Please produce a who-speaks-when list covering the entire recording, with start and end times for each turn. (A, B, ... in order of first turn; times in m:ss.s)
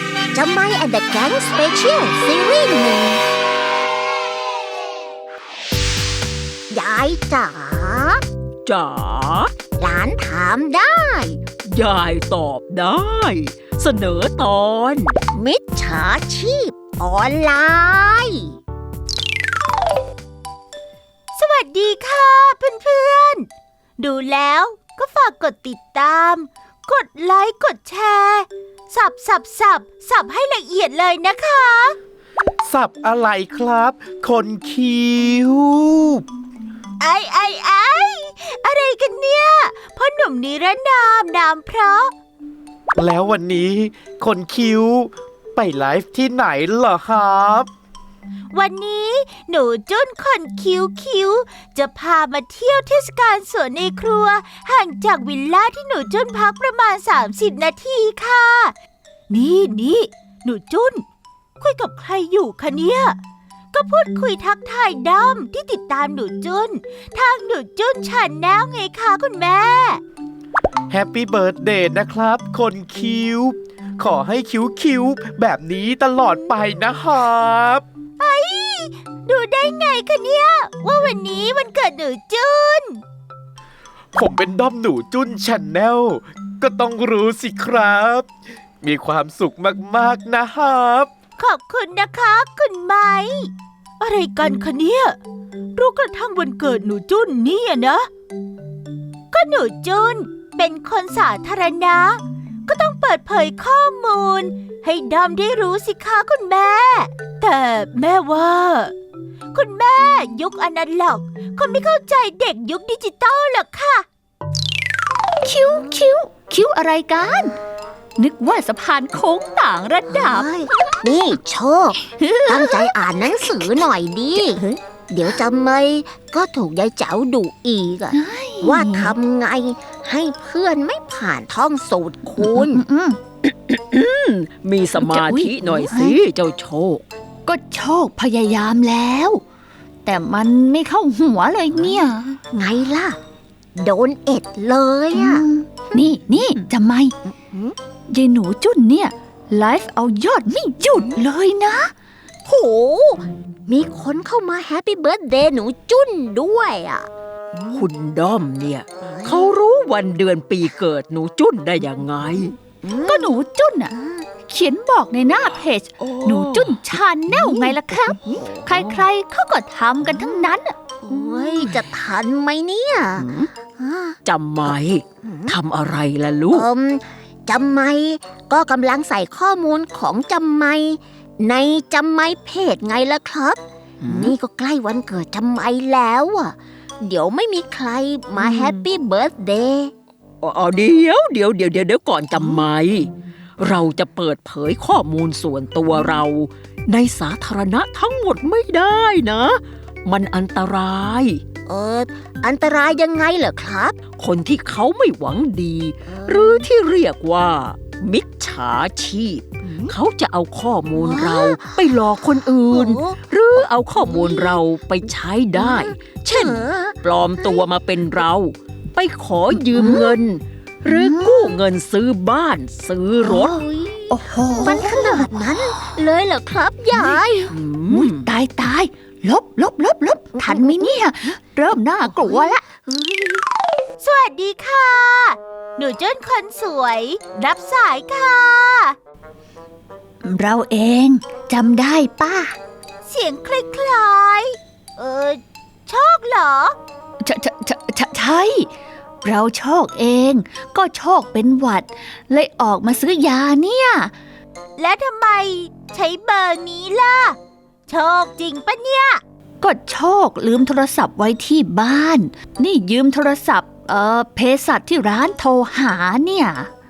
0:00.3-0:03.2 A
0:06.7-0:08.2 A
0:08.6-0:09.5 B
0:09.8-0:11.4 A
0:11.7-0:15.2 B
0:15.3-0:18.6 A
0:21.3-0:23.4 C
0:24.0-0:32.0 C
0:32.6-0:36.2 D
0:37.0-0:42.1 C
0:43.0-0:47.7 D
0:48.5-0:58.7 C
0:59.3-1:01.0 C
1:01.6-1:03.2 C
1:03.7-1:10.0 C
1:10.9-1:17.8 D
1:18.2-1:23.0 C
1:24.1-1:28.3 D
1:28.8-1:31.1 D
1:31.4-1:35.2 C
1:35.7-1:38.1 C
1:39.3-1:48.9 C
1:49.5-1:54.0 C
1:55.4-1:57.6 E
1:58.2-2:00.5 E
2:00.1-2:12.8 A
2:02.0-2:02.9 E
2:08.1-2:09.1 E
2:12.4-2:13.2 E
2:13.5-2:17.0 B
2:15.0-2:16.2 E
2:17.4-2:19.4 E
2:20.0-2:22.4 E
2:22.5-2:23.2 A
2:23.8-2:25.4 A
2:25.1-2:27.1 E
2:27.4-2:27.7 A
2:28.1-2:31.9 E
2:32.4-2:37.1 A
2:37.7-2:42.5 B
2:39.0-2:39.5 A
2:42.8-2:43.3 A
2:43.0-2:43.9 E
2:44.0-2:44.2 A
2:44.5-2:50.8 E
2:46.1-2:46.7 B
2:48.7-2:49.0 B
2:51.0-2:55.6 A
2:54.2-2:56.6 B
2:56.5-3:09.9 A
3:08.4-3:08.8 B
3:10.4-3:21.4 B
3:21.6-3:24.0 A
3:24.2-3:35.8 B
3:26.1-3:26.7 A
3:29.6-3:30.0 A
3:30.9-3:34.6 A
3:35.5-3:37.6 A
3:36.3-3:43.5 B
3:39.5-3:40.0 A
3:39.7-3:40.2 E
3:40.8-3:41.5 E
3:43.2-3:47.5 A
3:44.1-3:45.3 E
3:47.5-3:48.2 B
3:47.9-3:52.6 E
3:50.4-3:51.0 A
3:52.0-3:53.4 A
3:54.0-3:58.9 C
4:00.2-4:02.6 E
4:03.0-4:06.8 C
4:07.2-4:08.7 E
4:09.2-4:14.1 E
4:14.8-4:17.4 C
4:17.9-4:19.2 C
4:19.6-4:26.7 E